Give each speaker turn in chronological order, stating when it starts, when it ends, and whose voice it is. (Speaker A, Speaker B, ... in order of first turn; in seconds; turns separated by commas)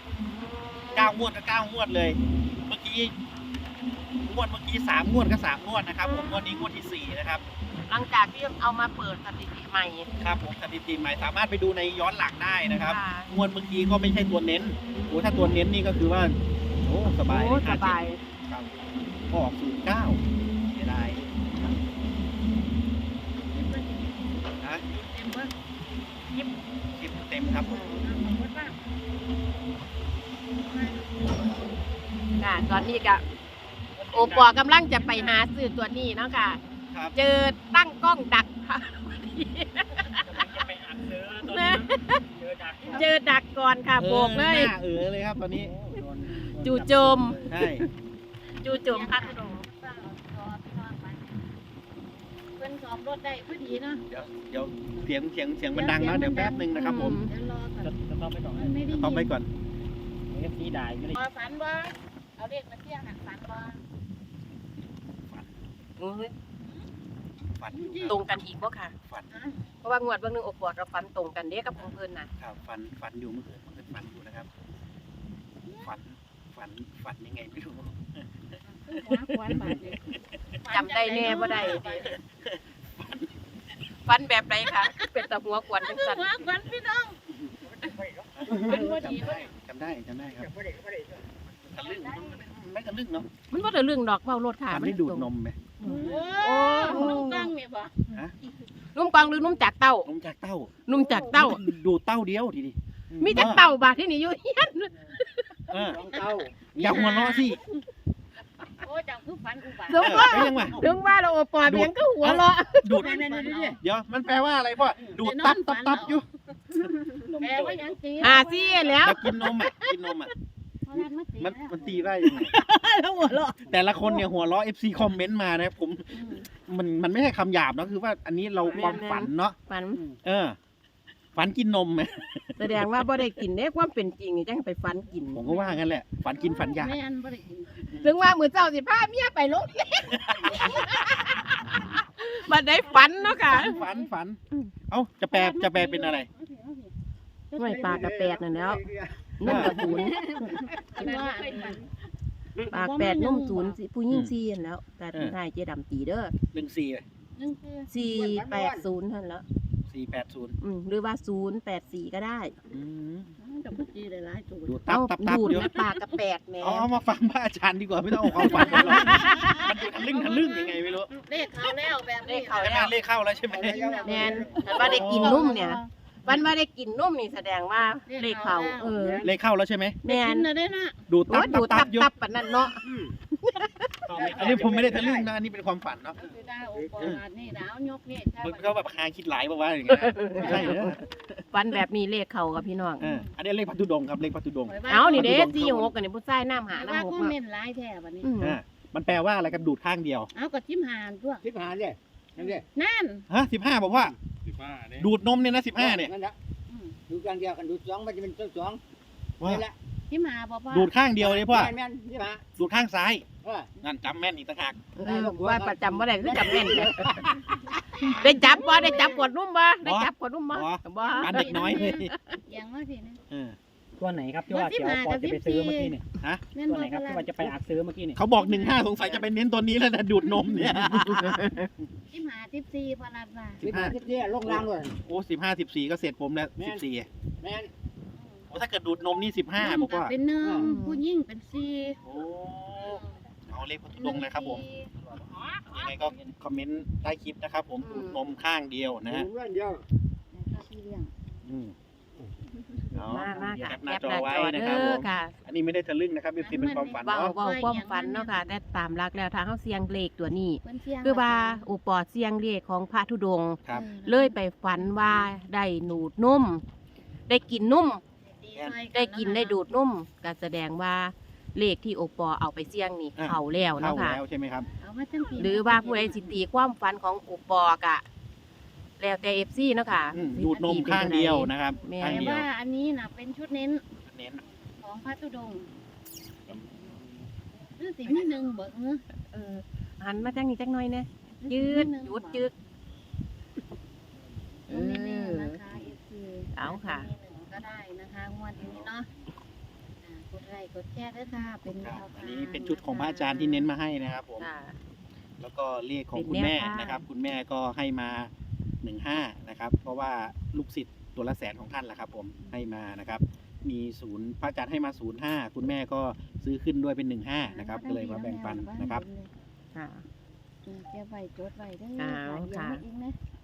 Speaker A: 0.2-1.1, Speaker B: 0.9-3.1, Speaker B: 4.2-7.4, Speaker A: 6.0-6.7, Speaker A: 7.9-10.1, Speaker B: 10.2-20.2, Speaker A: 12.8-13.3, Speaker A: 15.1-15.6, Speaker A: 17.2-18.2, Speaker B: 20.7-21.8, Speaker C: 23.4-25.5, Speaker B: 24.6-24.9, Speaker B: 26.9-27.7, Speaker C: 27.6-28.8, Speaker C: 30.5-31.6, Speaker A: 32.4-33.2, Speaker D: 34.0-34.6, Speaker A: 34.1-36.6, Speaker C: 35.0-35.4, Speaker B: 36.9-37.1, Speaker A: 37.1-40.2, Speaker D: 40.0-43.1, Speaker A: 41.4-42.2, Speaker C: 42.8-43.2, Speaker A: 42.9-44.7, Speaker B: 44.0-45.7, Speaker D: 45.5-47.6, Speaker A: 46.6-47.9, Speaker B: 47.5-47.8, Speaker A: 48.6-49.6, Speaker C: 48.7-51.4, Speaker C: 52.6-54.0, Speaker B: 54.0-57.2, Speaker C: 55.7-57.9, Speaker A: 56.8-57.3, Speaker D: 57.8-58.8, Speaker C: 58.5-59.4, Speaker B: 58.9-59.5, Speaker D: 60.3-61.2, Speaker C: 61.1-63.8, Speaker B: 65.3-65.6, Speaker A: 66.0-66.3, Speaker B: 67.6-68.2, Speaker C: 67.7-68.2, Speaker A: 68.1-68.9, Speaker C: 69.3-69.6, Speaker A: 69.8-72.3, Speaker B: 72.4-74.5, Speaker C: 75.6-75.9, Speaker B: 75.8-78.3, Speaker C: 78.6-80.0, Speaker B: 79.5-80.1, Speaker C: 80.6-82.2, Speaker A: 80.7-82.2, Speaker B: 81.5-83.4, Speaker A: 84.1-86.2, Speaker C: 84.7-85.1, Speaker C: 85.8-87.2, Speaker E: 87.6-88.9, Speaker B: 88.4-90.5, Speaker C: 88.5-89.5, Speaker E: 90.3-91.3, Speaker B: 91.5-93.3, Speaker A: 93.5-95.3, Speaker B: 94.7-95.6, Speaker A: 95.8-97.5, Speaker C: 95.8-98.1, Speaker A: 98.9-100.1, Speaker B: 100.0-100.8, Speaker A: 100.9-101.6, Speaker E: 100.9-101.3, Speaker B: 101.3-103.6, Speaker A: 103.2-105.7, Speaker B: 105.7-106.0, Speaker E: 105.8-106.6, Speaker C: 106.1-107.8, Speaker B: 106.8-107.6, Speaker C: 108.8-110.9, Speaker A: 109.9-113.0, Speaker B: 110.0-110.9, Speaker B: 111.6-113.2, Speaker C: 112.9-113.8, Speaker E: 113.1-113.8, Speaker B: 113.8-116.2, Speaker C: 115.0-119.1, Speaker D: 117.3-117.9, Speaker A: 118.2-119.9, Speaker B: 119.0-120.3, Speaker C: 120.9-122.2, Speaker B: 121.4-122.6, Speaker D: 122.8-123.5, Speaker B: 123.7-129.6, Speaker C: 126.1-126.5, Speaker A: 128.6-130.0, Speaker B: 130.2-130.6, Speaker B: 131.3-133.1, Speaker A: 132.6-135.4, Speaker B: 135.3-136.9, Speaker C: 135.4-137.8, Speaker A: 138.0-143.7, Speaker B: 140.1-140.7, Speaker C: 143.0-144.1, Speaker B: 143.5-146.3, Speaker C: 145.3-146.9, Speaker C: 147.5-147.9, Speaker A: 147.6-148.8, Speaker E: 147.6-151.0, Speaker A: 149.4-151.8, Speaker B: 149.4-149.9, Speaker C: 149.9-151.8, Speaker C: 152.7-153.8, Speaker A: 152.7-156.3, Speaker B: 156.5-157.0, Speaker C: 157.4-157.9, Speaker A: 157.9-159.4, Speaker E: 158.0-158.9, Speaker B: 159.9-160.6, Speaker A: 160.6-162.6, Speaker B: 162.7-163.3, Speaker C: 163.4-164.8, Speaker B: 164.7-165.7, Speaker A: 164.9-166.9, Speaker C: 165.3-165.9, Speaker B: 166.6-171.1, Speaker A: 168.3-169.7, Speaker C: 168.4-172.8, Speaker A: 172.2-172.9, Speaker B: 172.6-173.8, Speaker C: 173.4-175.9, Speaker E: 173.5-175.2, Speaker A: 174.1-179.3, Speaker B: 174.7-175.5, Speaker C: 178.1-179.0, Speaker E: 178.9-179.3, Speaker B: 179.2-180.0, Speaker A: 180.0-180.4, Speaker C: 180.1-181.0, Speaker B: 181.1-182.1, Speaker A: 181.3-182.8, Speaker E: 182.8-183.2, Speaker A: 183.4-183.9, Speaker D: 184.1-184.9, Speaker B: 184.1-186.2, Speaker E: 184.2-185.3, Speaker C: 184.2-184.8, Speaker C: 186.2-188.8, Speaker E: 186.8-187.0, Speaker B: 188.4-191.4, Speaker A: 189.9-191.0, Speaker A: 191.5-193.0, Speaker C: 193.0-193.3, Speaker B: 193.0-195.9, Speaker C: 194.7-195.4, Speaker A: 194.9-197.3, Speaker C: 196.7-198.3, Speaker A: 198.2-198.6, Speaker B: 198.4-200.3, Speaker C: 200.3-201.4, Speaker E: 201.4-202.7, Speaker C: 202.4-203.2, Speaker B: 203.3-204.2, Speaker E: 204.6-205.1, Speaker B: 205.0-206.1, Speaker E: 205.8-206.4, Speaker C: 206.7-207.0, Speaker E: 207.1-208.8, Speaker E: 209.4-209.8, Speaker C: 210.1-211.0, Speaker B: 210.7-211.7, Speaker E: 211.1-212.4, Speaker B: 212.6-213.3, Speaker E: 213.4-213.7, Speaker B: 213.8-214.8, Speaker A: 214.9-222.3, Speaker E: 215.0-217.1, Speaker C: 218.0-219.3, Speaker B: 219.8-222.1, Speaker C: 221.0-223.2, Speaker B: 223.3-223.6, Speaker D: 224.0-226.0, Speaker C: 224.4-226.0, Speaker C: 226.5-227.5, Speaker D: 226.6-228.2, Speaker B: 228.2-231.8, Speaker C: 228.3-229.1, Speaker C: 232.1-233.7, Speaker E: 233.6-234.9, Speaker B: 233.6-237.1, Speaker E: 236.6-236.8, Speaker E: 237.4-237.7, Speaker C: 238.2-238.5, Speaker B: 238.5-240.1, Speaker C: 239.6-242.0, Speaker E: 240.4-240.8, Speaker A: 240.6-241.0, Speaker B: 242.1-244.7, Speaker C: 242.9-243.2, Speaker C: 244.0-244.8, Speaker B: 245.7-249.3, Speaker A: 247.8-248.2, Speaker E: 249.1-249.8, Speaker C: 250.3-251.1, Speaker B: 251.4-251.7, Speaker B: 252.9-257.3, Speaker A: 253.1-255.3, Speaker C: 256.4-258.4, Speaker A: 257.0-266.6, Speaker C: 260.6-261.6, Speaker C: 263.7-265.3, Speaker A: 267.3-268.0, Speaker C: 268.2-269.6, Speaker A: 268.9-274.2, Speaker B: 273.2-274.7, Speaker C: 274.8-276.3, Speaker A: 275.4-278.0, Speaker A: 279.0-282.4, Speaker B: 280.1-282.5, Speaker C: 280.5-281.0, Speaker C: 282.0-283.8, Speaker B: 284.1-284.4, Speaker C: 284.6-285.7, Speaker C: 287.8-289.1, Speaker A: 289.2-292.5, Speaker C: 291.4-292.5, Speaker A: 294.7-295.6, Speaker C: 294.7-299.1, Speaker A: 296.6-297.1, Speaker C: 300.0-303.6, Speaker B: 301.8-304.5, Speaker A: 304.4-304.8, Speaker B: 305.4-308.3, Speaker A: 306.1-307.0, Speaker B: 308.8-319.0, Speaker C: 317.5-319.3, Speaker A: 319.7-320.1, Speaker C: 320.7-323.2, Speaker A: 322.0-322.8